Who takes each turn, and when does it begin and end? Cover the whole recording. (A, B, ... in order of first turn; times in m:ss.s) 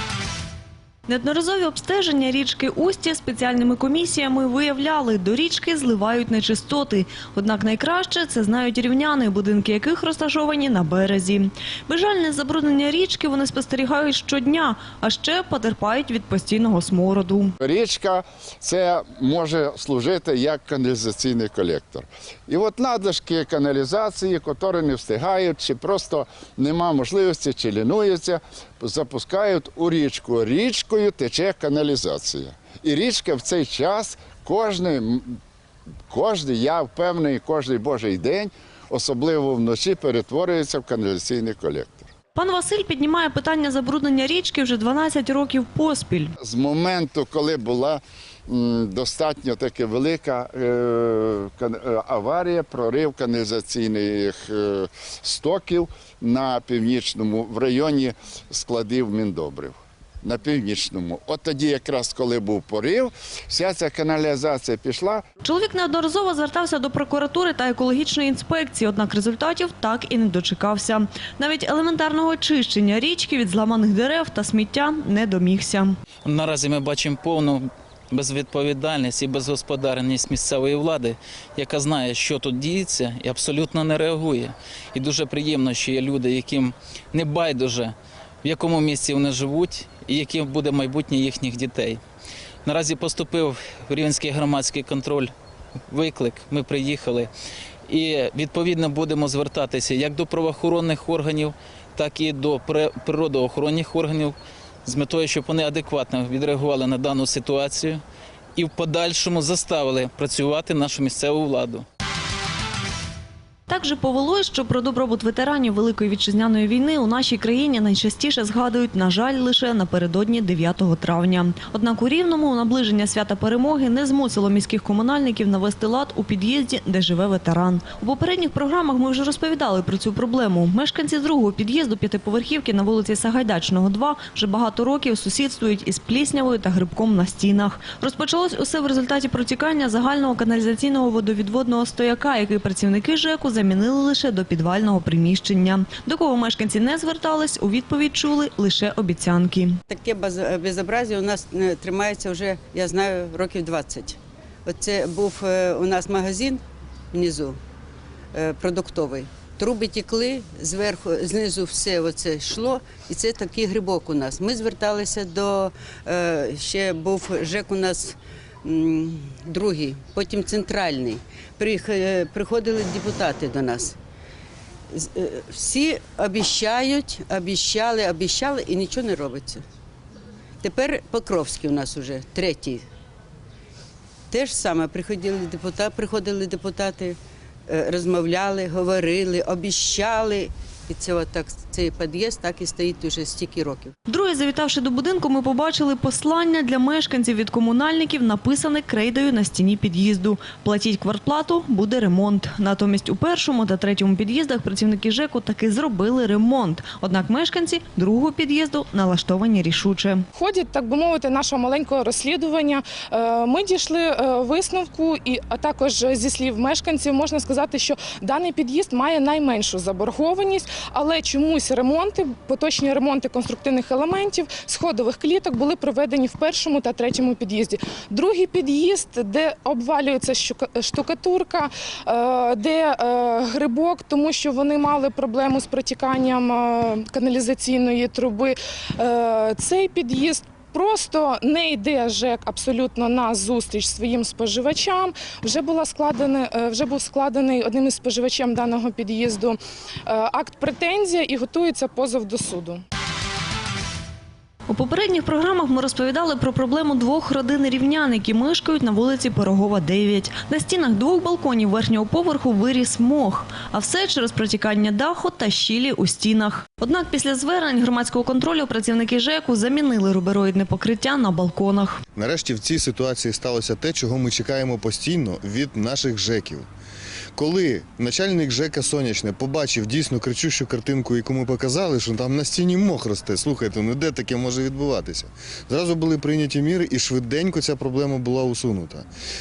0:01.1-0:17.5 A
0:17.6-0:35.4 B
0:36.1-0:42.1 B
0:42.3-0:46.3 A
0:46.4-1:05.2 B
1:05.4-1:16.0 A
1:16.2-1:32.0 C
1:32.6-1:35.3 C
1:35.9-1:37.3 C
1:37.9-1:48.0 C
1:48.6-1:51.8 C
1:53.7-2:29.8 A
2:29.9-2:37.6 D
2:38.3-2:54.0 D
2:54.9-2:59.6 D
3:00.6-3:02.8 D
3:04.3-3:13.9 D
3:14.1-3:30.2 A
3:30.3-4:12.8 E
4:14.7-4:32.0 A
4:32.2-4:36.7 F
4:37.4-4:49.1 F